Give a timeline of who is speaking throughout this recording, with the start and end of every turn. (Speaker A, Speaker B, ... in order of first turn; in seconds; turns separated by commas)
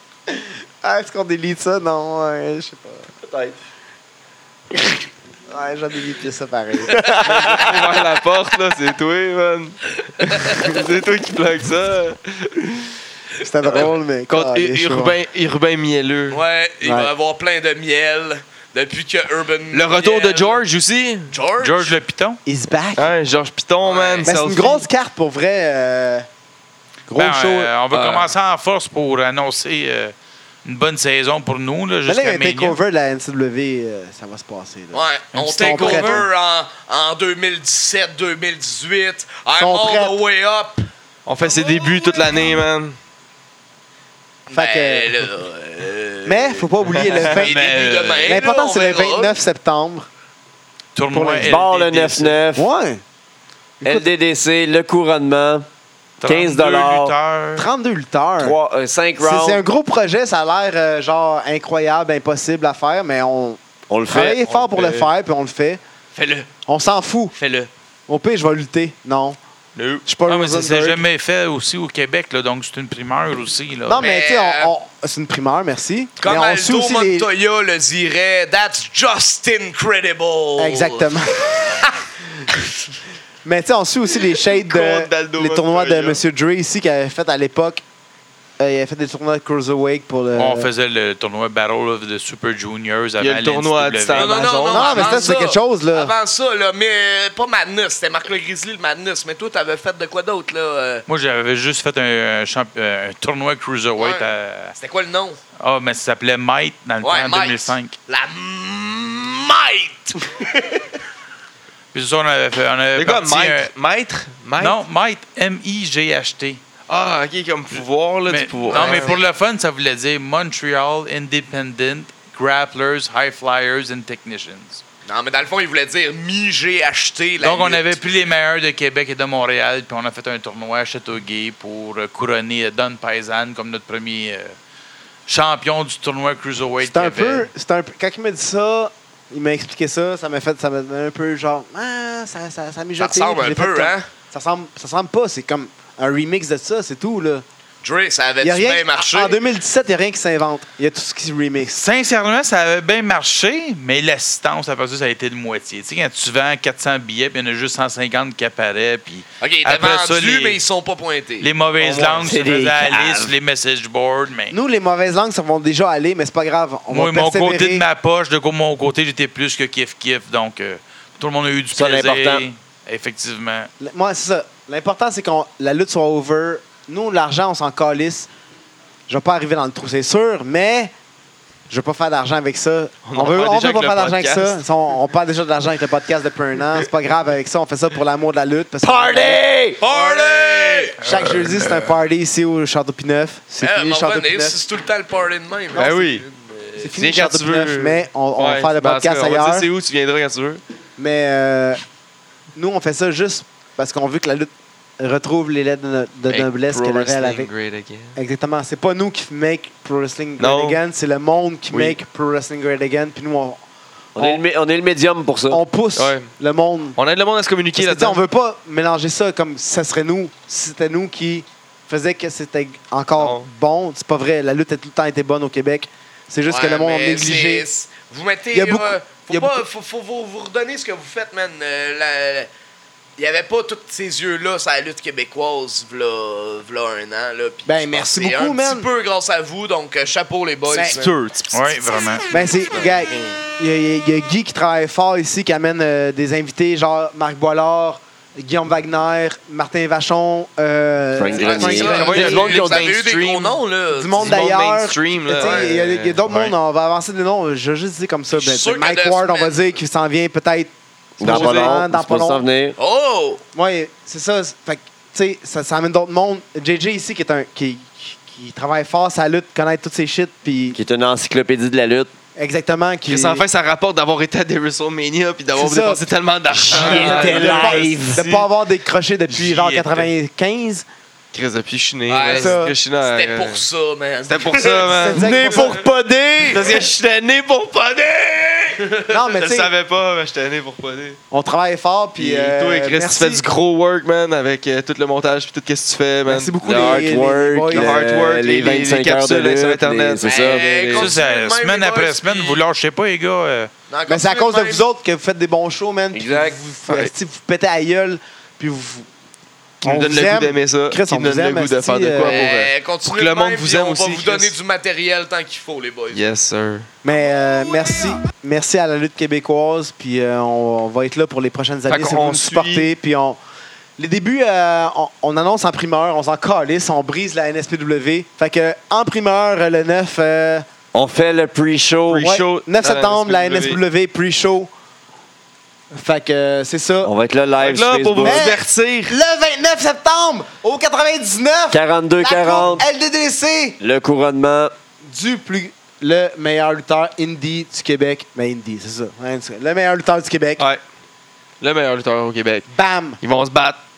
Speaker A: 0.3-3.5, Speaker A: 4.9-8.0, Speaker B: 6.9-12.9, Speaker A: 13.4-15.2, Speaker B: 13.8-16.4, Speaker C: 16.3-20.6, Speaker A: 16.8-17.1, Speaker B: 19.7-21.3, Speaker C: 21.3-22.0, Speaker D: 21.6-22.4, Speaker A: 22.4-23.1, Speaker B: 23.0-24.9, Speaker C: 23.8-24.3, Speaker A: 24.2-26.3, Speaker A: 27.1-27.7, Speaker D: 27.1-30.1, Speaker B: 27.9-28.3, Speaker D: 30.6-32.8, Speaker A: 32.1-36.3, Speaker C: 34.9-40.9, Speaker D: 35.3-36.2, Speaker A: 39.6-40.2, Speaker B: 41.3-43.0, Speaker C: 44.5-49.4, Speaker A: 44.5-45.1, Speaker A: 46.2-50.1, Speaker B: 47.0-48.1, Speaker D: 51.0-52.4, Speaker A: 51.1-51.6, Speaker E: 51.3-52.7, Speaker A: 52.5-53.0, Speaker A: 53.8-54.1, Speaker E: 53.8-55.7, Speaker E: 56.2-57.1, Speaker D: 56.2-57.7, Speaker A: 57.6-58.6, Speaker E: 58.4-59.6, Speaker A: 59.2-65.8, Speaker E: 63.9-65.0, Speaker B: 64.8-65.0, Speaker C: 66.2-66.5, Speaker A: 66.7-67.3, Speaker C: 67.3-67.7, Speaker A: 68.1-69.4, Speaker B: 69.8-70.1, Speaker A: 70.1-71.0, Speaker D: 70.3-74.1, Speaker A: 73.9-77.3, Speaker C: 74.0-74.7, Speaker C: 76.2-82.0, Speaker A: 80.6-81.7, Speaker A: 83.5-87.8, Speaker B: 84.5-86.2, Speaker A: 88.6-90.7, Speaker D: 90.3-94.6, Speaker B: 93.2-95.3, Speaker C: 94.1-101.0, Speaker A: 94.7-96.1, Speaker D: 101.1-104.8, Speaker C: 104.0-105.4, Speaker D: 105.6-108.0, Speaker C: 107.0-110.6, Speaker D: 111.9-113.7, Speaker B: 113.0-114.8, Speaker D: 114.6-116.6, Speaker B: 116.9-119.2, Speaker D: 118.3-124.8, Speaker C: 118.7-119.3, Speaker C: 125.1-128.2, Speaker D: 127.4-134.6, Speaker D: 135.3-137.5, Speaker A: 136.8-147.4, Speaker C: 143.0-144.1, Speaker C: 147.8-149.4, Speaker A: 148.4-151.8, Speaker D: 151.7-160.6, Speaker C: 159.4-161.5, Speaker D: 161.4-164.6, Speaker B: 161.8-162.2, Speaker E: 162.2-163.3, Speaker A: 164.5-167.8, Speaker D: 166.9-173.7, Speaker E: 171.7-172.4, Speaker A: 173.8-178.3, Speaker A: 179.1-180.9, Speaker A: 181.7-190.0, Speaker B: 183.1-184.6, Speaker E: 188.8-189.8, Speaker C: 189.8-191.0, Speaker A: 191.0-194.6, Speaker D: 191.1-191.9, Speaker C: 193.6-196.8, Speaker B: 195.8-196.2, Speaker A: 196.8-199.7, Speaker B: 197.0-200.6, Speaker A: 201.0-201.8, Speaker A: 202.6-207.5, Speaker B: 206.3-208.2, Speaker A: 208.2-213.6, Speaker B: 210.4-210.8, Speaker B: 211.7-212.0, Speaker E: 214.2-215.6, Speaker B: 214.2-214.4, Speaker A: 215.5-217.0, Speaker B: 216.0-216.3, Speaker B: 217.0-218.2, Speaker A: 217.8-227.7, Speaker B: 223.2-223.5, Speaker C: 226.5-232.5, Speaker A: 228.5-229.6, Speaker C: 233.2-241.1, Speaker A: 237.7-238.9, Speaker A: 240.7-241.0, Speaker B: 240.9-241.6, Speaker D: 241.5-242.2, Speaker A: 242.3-252.5, Speaker B: 242.3-243.4, Speaker E: 251.1-252.9, Speaker C: 251.4-254.4, Speaker B: 251.7-253.6, Speaker A: 253.9-262.4, Speaker B: 254.2-256.6, Speaker C: 255.4-255.7, Speaker C: 258.3-259.8, Speaker E: 261.2-262.8, Speaker B: 261.2-261.8, Speaker C: 262.8-263.4, Speaker A: 263.5-270.8, Speaker E: 270.7-272.1, Speaker A: 272.4-273.4, Speaker B: 273.1-278.5, Speaker A: 275.6-276.1, Speaker E: 276.5-278.3, Speaker A: 276.7-280.9, Speaker D: 279.3-280.1, Speaker B: 281.3-283.6, Speaker C: 282.1-285.0, Speaker A: 282.3-282.7, Speaker B: 284.3-285.8, Speaker A: 284.9-285.9, Speaker E: 285.2-286.8, Speaker B: 286.4-291.2, Speaker A: 289.1-289.7, Speaker A: 291.3-293.5, Speaker B: 292.2-301.1, Speaker A: 296.3-298.0, Speaker E: 296.6-300.7, Speaker C: 300.2-302.6, Speaker D: 300.9-303.7, Speaker C: 303.9-304.9, Speaker A: 304.1-309.1, Speaker E: 306.1-306.6, Speaker A: 309.8-312.4, Speaker B: 309.8-314.6, Speaker C: 312.2-316.2, Speaker B: 316.1-316.9, Speaker A: 317.0-323.4, Speaker B: 321.9-322.9, Speaker A: 324.0-330.6, Speaker E: 330.9-332.4, Speaker B: 332.1-333.8, Speaker A: 332.2-334.7, Speaker A: 335.9-337.1, Speaker E: 337.0-338.6, Speaker B: 337.6-339.2, Speaker A: 338.2-343.8, Speaker E: 341.7-342.9, Speaker E: 343.8-344.7, Speaker A: 345.1-350.6, Speaker B: 351.6-352.7, Speaker A: 352.7-353.2, Speaker B: 353.2-353.8